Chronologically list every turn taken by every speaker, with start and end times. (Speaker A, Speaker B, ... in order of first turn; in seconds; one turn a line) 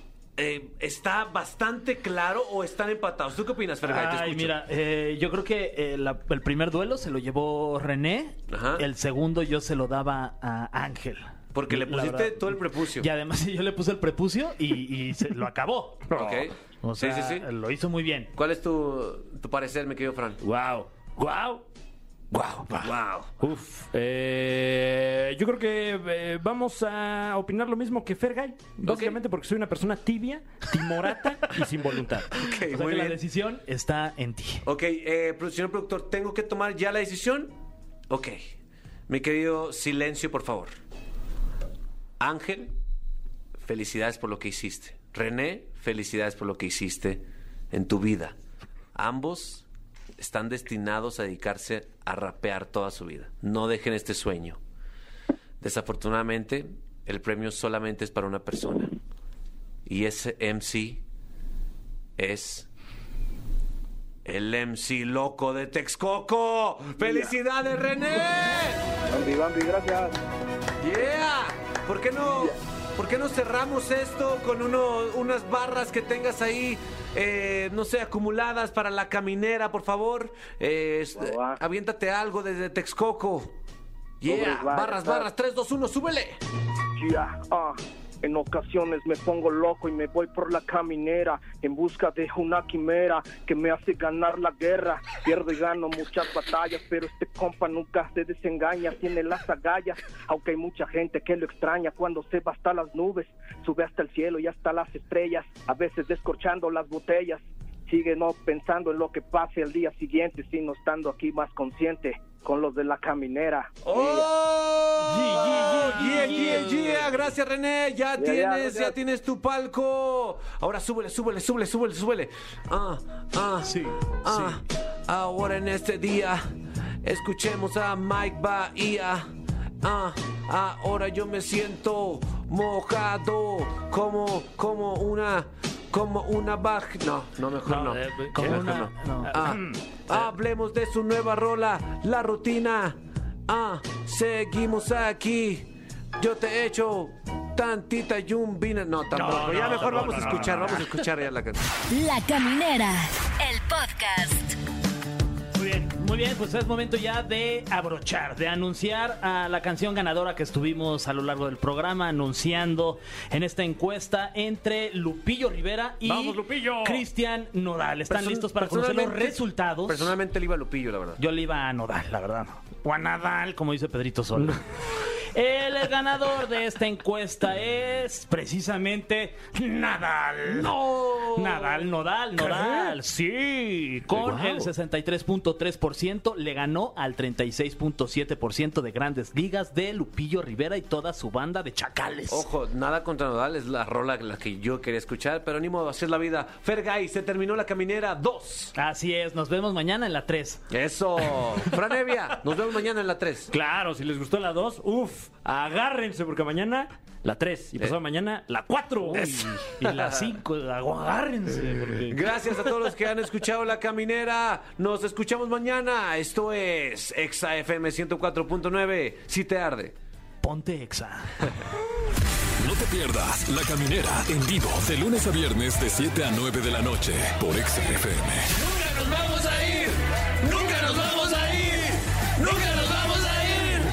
Speaker A: 0.4-4.5
Speaker B: 3.9-16.1
Speaker A: 8.5-8.8
Speaker A: 11.5-13.1
Speaker C: 16.1-16.4
Speaker A: 16.1-17.5
Speaker B: 16.8-18.3
Speaker A: 18.4-20.4
Speaker C: 20.4-21.6
Speaker C: 22.3-32.4
Speaker A: 22.8-23.3
Speaker A: 28.9-29.2
Speaker A: 32.4-33.2
Speaker B: 32.7-34.6
Speaker A: 34.6-37.5
Speaker A: 38.1-38.5
Speaker A: 39.1-40.7
Speaker A: 42.2-42.8
Speaker A: 43.6-48.4
Speaker A: 49.0-49.6
Speaker A: 50.2-54.6
Speaker A: 55.6-59.0
Speaker A: 59.9-61.0
Speaker A: 62.2-62.7
Speaker A: 64.2-68.8
Speaker D: 67.0-67.3
Speaker D: 69.1-70.1
Speaker A: 70.8-83.6
Speaker D: 81.2-81.6
Speaker A: 84.2-86.4
Speaker D: 84.2-85.3
Speaker D: 87.0-114.3
Speaker A: 113.9-126.5
Speaker C: 115.1-117.0
Speaker B: 115.3-117.0
Speaker D: 118.2-119.0
Speaker B: 123.7-124.5
Speaker A: 127.0-129.3
Speaker A: 129.8-143.0
Speaker C: 137.7-140.3
Speaker B: 138.3-139.4
Speaker A: 143.5-145.7
Speaker A: 146.2-151.7
Speaker B: 149.2-150.8
Speaker C: 149.3-150.7
Speaker E: 151.9-154.6
Speaker B: 155.6-170.1
Speaker C: 166.1-167.1
Speaker A: 168.1-171.2
Speaker B: 171.2-174.6
Speaker B: 175.3-192.5
Speaker A: 180.5-181.8
Speaker C: 182.4-182.9
Speaker C: 184.1-184.7
Speaker A: 192.3-198.8
Speaker B: 198.8-200.7
Speaker A: 200.7-203.5
Speaker C: 203.5-209.3
Speaker B: 209.1-212.2
Speaker A: 209.2-210.3
Speaker A: 212.1-219.9
Speaker B: 220.4-221.3
Speaker F: 222.6-228.5
Speaker C: 230.8-231.7
Speaker A: 232.4-233.1
Speaker C: 232.6-233.6